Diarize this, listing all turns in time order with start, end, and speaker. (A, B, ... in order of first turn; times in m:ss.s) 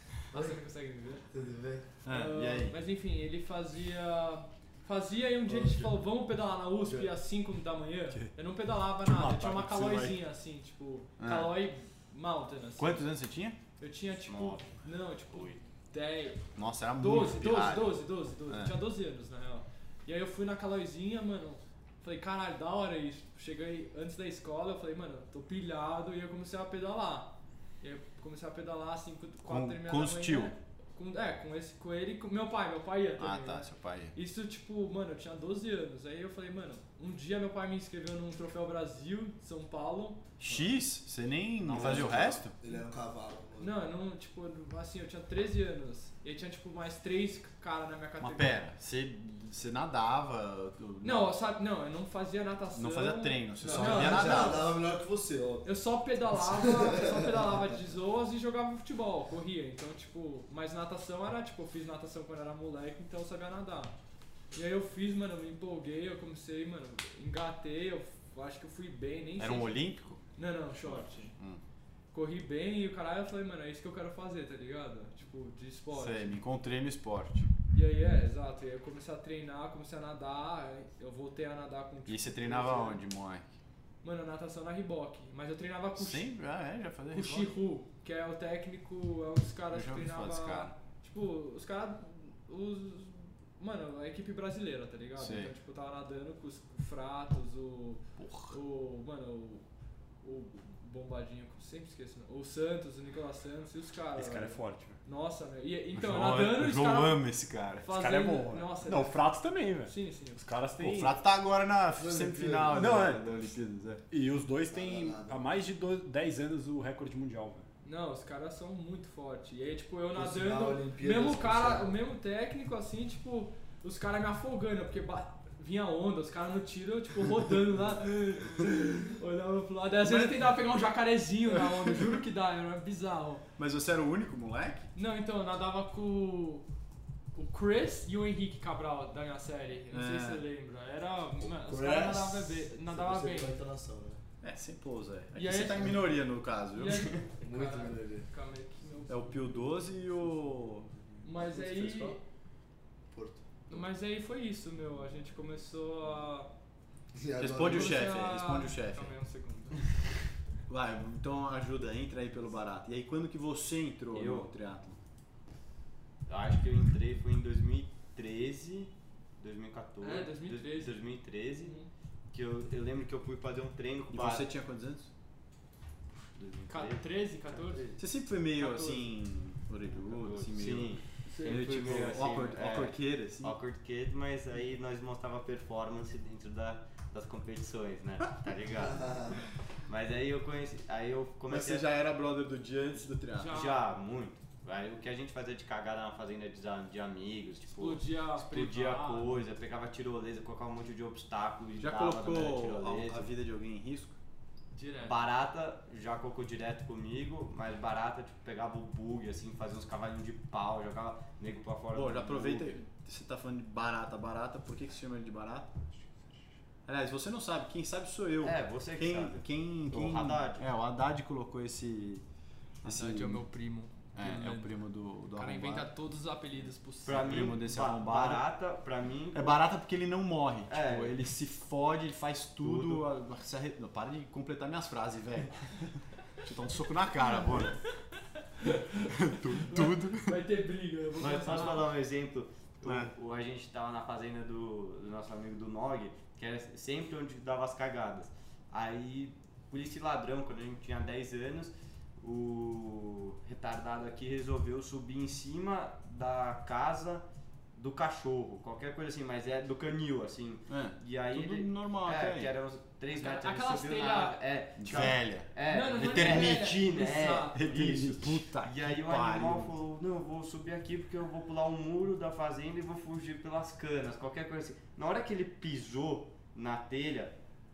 0:00.3-0:00.6 A
0:00.3-0:01.3 B
0:01.3-0:01.9 A
0:02.0-0:02.8 C
0:02.1-0:13.1 B
0:05.5-0:05.9 A
0:06.8-0:07.1 A
0:09.0-0:10.2 D
0:11.2-0:11.6 C
0:12.8-0:13.6 C
0:13.8-0:16.4 B
0:14.3-0:14.7 E
0:15.3-0:15.6 E
0:16.6-0:18.8 C
0:17.0-0:40.2 B
0:29.4-0:30.5 C
0:33.2-0:34.1 C
0:40.4-0:42.6 C
0:41.6-0:42.4 E
0:41.8-0:43.7 A
0:43.6-0:48.6 B
0:48.2-0:51.3 C
0:51.0-0:54.7 B
0:52.7-0:54.7 C
0:53.6-0:55.7 A
0:55.6-1:03.9 B
0:56.4-0:57.7 A
1:04.5-1:09.8 B
1:09.4-1:10.2 C
1:10.4-1:11.4 B
1:10.8-1:11.6 C
1:12.1-1:16.4 B
1:15.9-1:17.5 C
1:17.7-1:23.0 B
1:22.1-1:23.5 C
1:24.0-1:26.3 B
1:26.0-1:27.5 C
1:27.1-1:39.6 B
1:29.7-1:30.8 C
1:35.2-1:35.5 C
1:38.2-1:38.6 C
1:40.2-1:47.2 B
1:44.2-1:45.0 D
1:45.9-1:47.9 C
1:47.8-1:49.2 B
1:47.9-1:51.2 D
1:49.8-1:50.4 B
1:50.8-1:54.0 C
1:52.0-1:53.0 A
1:52.7-1:53.2 D
1:54.1-1:57.6 D
1:54.7-1:55.4 A
1:57.8-2:13.4 B
2:00.1-2:01.9 A
2:10.0-2:10.6 C
2:11.6-2:12.1 C
2:13.6-2:14.9 C
2:15.0-2:16.7 B
2:17.4-2:23.6 B
2:19.9-2:20.4 C
2:21.5-2:24.2 A
2:24.4-2:27.1 C
2:25.4-2:26.1 B
2:26.8-2:29.4 B
2:27.4-2:28.3 A
2:29.1-2:32.2 C
2:31.2-2:32.2 B
2:33.1-2:33.8 A
2:33.7-2:36.5 B
2:37.2-2:38.1 A
2:37.4-2:39.1 C
2:37.6-2:39.8 B
2:40.7-2:45.0 C
2:44.1-2:44.5 E
2:46.3-2:51.8 E
2:50.0-2:51.0 B
2:51.6-2:51.9 B
2:52.3-2:54.5 E
2:54.1-2:55.1 C
2:56.4-2:58.0 E
2:56.7-2:57.9 B
2:58.0-3:03.5 C
2:58.6-2:59.0 B
2:59.9-3:09.3 E
3:01.3-3:01.8 B
3:08.8-3:09.4 A
3:09.9-3:11.9 E
3:11.5-3:13.5 C
3:13.4-3:13.8 B
3:13.5-3:23.3 E
3:17.7-3:19.4 B
3:21.8-3:24.2 C
3:24.8-3:25.2 B
3:25.0-3:32.8 E
3:31.9-3:36.0 C
3:36.9-3:42.2 C
3:38.4-3:40.7 E
3:42.8-3:43.5 C
3:42.8-3:44.7 B
3:44.2-3:45.9 C
3:45.3-3:47.5 B
3:47.0-3:49.6 E
3:47.1-3:48.4 C
3:49.3-3:57.8 C
3:50.7-3:51.2 E
3:52.6-3:53.1 E
3:58.6-4:01.9 B
3:59.0-4:00.4 C
4:01.2-4:17.2 E
4:02.8-4:03.1 C
4:17.8-4:37.3 E
4:20.7-4:22.5 C
4:23.1-4:24.4 B
4:24.8-4:26.8 C
4:25.7-4:27.6 B
4:27.5-4:29.7 C